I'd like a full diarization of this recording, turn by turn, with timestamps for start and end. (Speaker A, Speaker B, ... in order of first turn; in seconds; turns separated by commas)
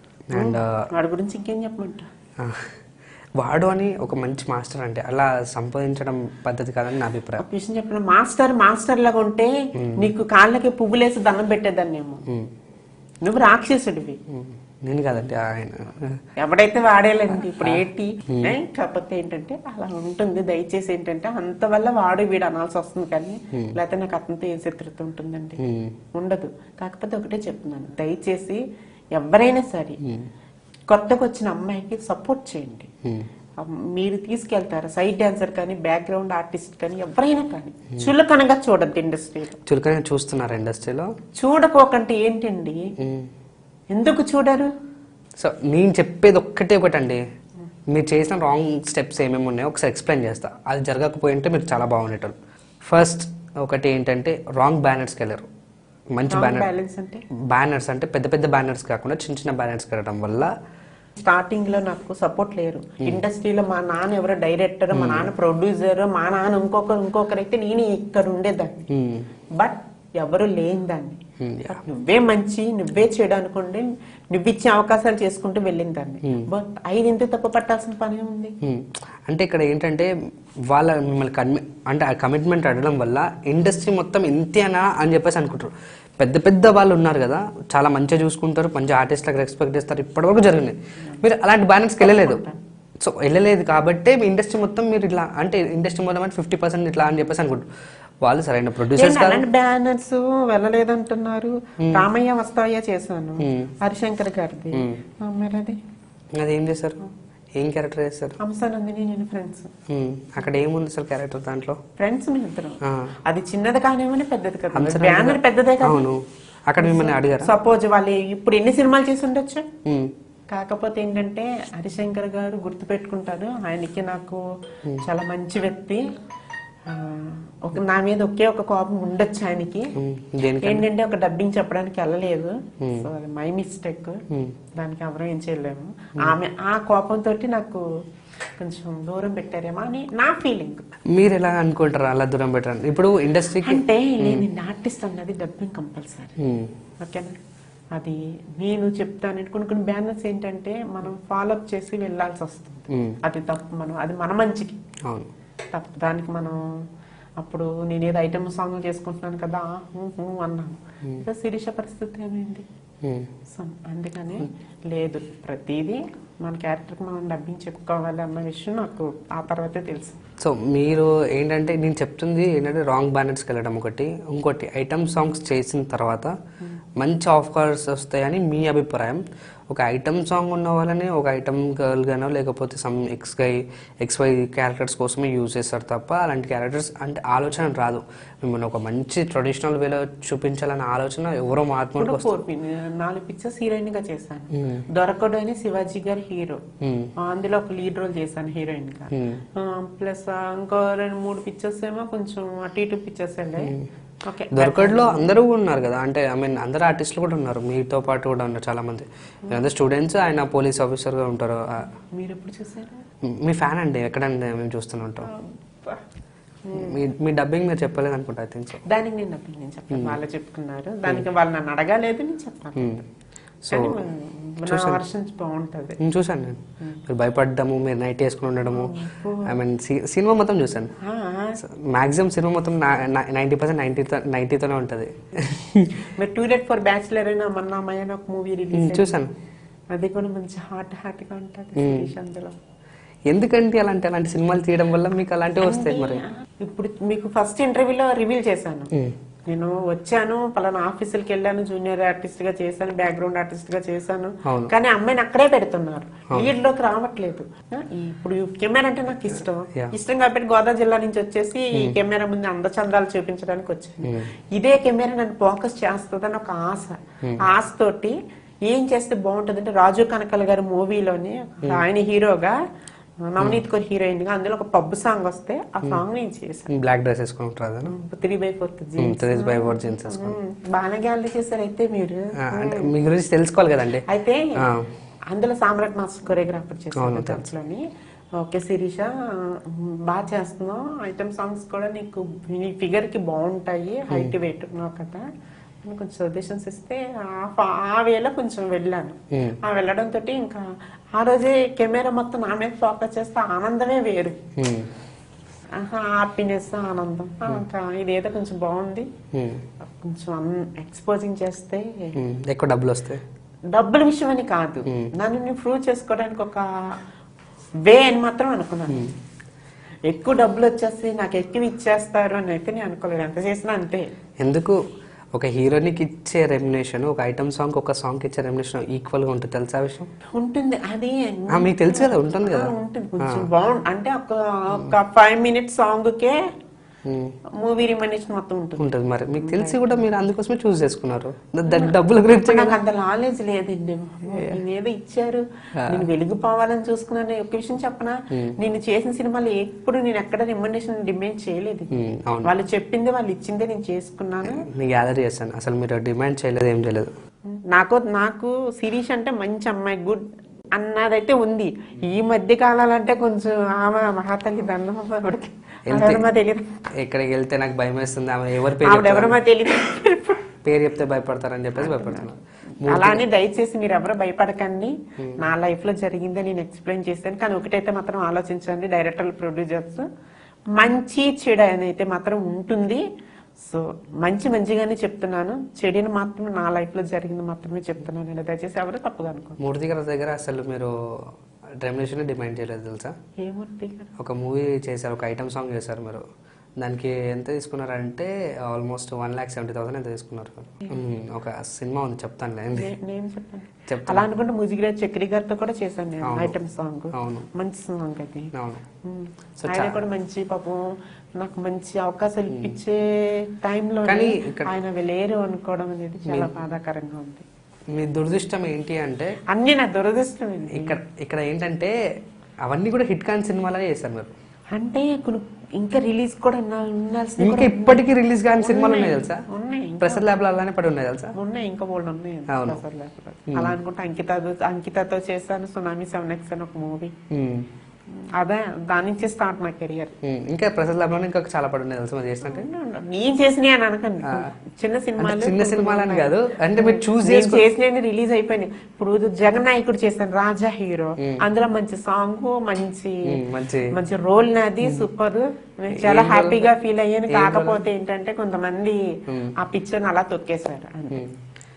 Speaker A: 0.3-0.7, Speaker B: 0.3-2.1, Speaker A: 2.4-2.8, Speaker A: 3.4-7.4, Speaker B: 7.4-12.2, Speaker A: 9.8-10.1, Speaker B: 13.2-14.2, Speaker A: 14.3-16.2, Speaker B: 16.4-25.6, Speaker A: 17.5-18.6, Speaker A: 25.6-26.0, Speaker B: 26.1-28.6, Speaker B: 29.1-30.0, Speaker A: 30.0-30.3, Speaker B: 30.9-32.9, Speaker B: 33.6-39.6, Speaker A: 39.7-41.1, Speaker B: 41.4-42.9, Speaker A: 43.0-43.3, Speaker B: 43.9-44.7, Speaker A: 45.4-47.2, Speaker A: 47.9-55.5, Speaker A: 56.1-56.7, Speaker B: 56.3-57.2, Speaker A: 57.5-60.5, Speaker B: 61.2-68.8, Speaker A: 64.9-65.3, Speaker A: 68.9-69.3, Speaker B: 69.6-78.5, Speaker A: 71.4-71.8, Speaker A: 78.6-80.1, Speaker A: 80.7-92.4, Speaker B: 92.0-92.6, Speaker A: 93.0-97.7, Speaker A: 98.2-99.5, Speaker B: 98.9-105.8, Speaker A: 103.4-103.7, Speaker A: 104.8-105.0, Speaker A: 106.4-107.0, Speaker A: 107.6-108.4, Speaker B: 108.4-109.7, Speaker A: 109.9-111.8, Speaker B: 112.0-116.0, Speaker A: 112.8-113.1, Speaker A: 114.7-117.5, Speaker B: 116.8-119.7, Speaker A: 119.9-120.1, Speaker B: 120.5-124.4, Speaker B: 125.0-126.0, Speaker B: 126.9-129.9, Speaker A: 130.0-130.9, Speaker B: 130.6-134.2, Speaker A: 132.8-133.1, Speaker A: 134.3-134.6, Speaker B: 134.8-137.8, Speaker B: 138.6-140.8, Speaker A: 141.1-144.5, Speaker B: 143.5-146.4, Speaker A: 146.4-146.7, Speaker B: 147.0-147.3, Speaker B: 148.0-154.8, Speaker A: 152.9-153.2, Speaker B: 155.7-156.6, Speaker B: 157.4-162.7, Speaker A: 163.0-163.3, Speaker B: 163.5-170.2, Speaker A: 170.4-176.3, Speaker A: 177.0-192.4, Speaker B: 192.0-196.6, Speaker A: 194.5-194.8, Speaker A: 196.8-197.1, Speaker B: 197.2-205.3, Speaker A: 199.1-199.4, Speaker A: 203.6-203.9, Speaker A: 204.5-211.9, Speaker B: 212.2-213.0, Speaker A: 213.2-215.3, Speaker B: 215.2-216.0, Speaker B: 216.7-217.0, Speaker A: 216.7-218.8, Speaker B: 218.9-223.1, Speaker A: 219.9-220.2, Speaker A: 222.8-223.0, Speaker A: 223.7-224.0, Speaker B: 223.7-226.0, Speaker A: 224.7-225.0, Speaker A: 226.0-230.9, Speaker B: 228.7-229.5, Speaker B: 231.0-231.6, Speaker A: 231.6-236.1, Speaker B: 236.2-239.2, Speaker A: 238.7-239.3, Speaker B: 239.9-242.5, Speaker A: 241.8-242.1, Speaker A: 243.3-246.2, Speaker B: 245.6-248.9, Speaker B: 249.5-272.6, Speaker A: 254.5-254.7, Speaker A: 264.0-264.3, Speaker B: 273.3-276.7, Speaker A: 276.7-277.9, Speaker B: 277.9-282.9, Speaker A: 279.0-280.4, Speaker A: 282.4-284.0, Speaker B: 284.1-284.6, Speaker A: 284.6-284.9, Speaker B: 285.3-287.8, Speaker A: 287.0-287.4, Speaker B: 288.4-295.2, Speaker B: 295.8-304.4, Speaker A: 299.3-299.6, Speaker A: 304.6-304.9, Speaker B: 305.8-309.1, Speaker A: 309.3-309.6, Speaker B: 310.0-312.2, Speaker A: 312.2-313.2, Speaker B: 313.7-316.7, Speaker B: 317.9-319.1, Speaker B: 320.1-324.1, Speaker A: 324.4-324.8, Speaker A: 325.3-330.1, Speaker B: 330.4-336.4, Speaker A: 331.5-333.5, Speaker A: 337.1-337.4, Speaker B: 337.6-340.1, Speaker A: 338.8-342.8, Speaker B: 341.7-351.9, Speaker A: 344.3-344.6, Speaker A: 351.9-352.5, Speaker B: 352.4-354.7, Speaker A: 354.5-357.1, Speaker B: 357.5-360.2, Speaker B: 360.8-366.6, Speaker A: 365.9-366.2, Speaker A: 367.0-369.4, Speaker B: 368.8-370.4, Speaker A: 370.6-373.2, Speaker B: 371.8-372.3, Speaker B: 372.9-380.1, Speaker A: 375.2-375.4, Speaker B: 380.7-383.0, Speaker B: 383.6-389.6, Speaker A: 389.6-393.2, Speaker B: 393.4-394.1, Speaker A: 394.2-396.2, Speaker A: 396.8-402.9, Speaker B: 402.7-408.5, Speaker A: 403.9-404.3, Speaker A: 406.2-406.6, Speaker A: 407.1-407.5, Speaker A: 408.5-408.8, Speaker B: 409.1-410.9, Speaker A: 409.6-410.0, Speaker B: 411.4-417.5, Speaker A: 412.5-412.8, Speaker A: 414.1-414.7, Speaker A: 416.3-416.5, Speaker A: 417.9-419.4, Speaker B: 419.5-421.0, Speaker A: 420.7-421.9, Speaker A: 422.6-424.3, Speaker B: 424.8-428.0, Speaker A: 427.4-429.4, Speaker B: 428.6-430.3, Speaker A: 430.0-431.3, Speaker B: 431.4-437.1, Speaker A: 432.5-432.8, Speaker A: 433.5-433.8, Speaker A: 437.3-437.7, Speaker B: 438.4-440.1, Speaker A: 440.2-442.7, Speaker B: 442.5-453.2, Speaker A: 445.2-447.6, Speaker A: 453.3-453.9, Speaker B: 453.9-459.0, Speaker A: 455.9-456.7, Speaker A: 457.3-457.8, Speaker A: 459.3-459.5, Speaker B: 459.6-461.3, Speaker A: 461.1-461.4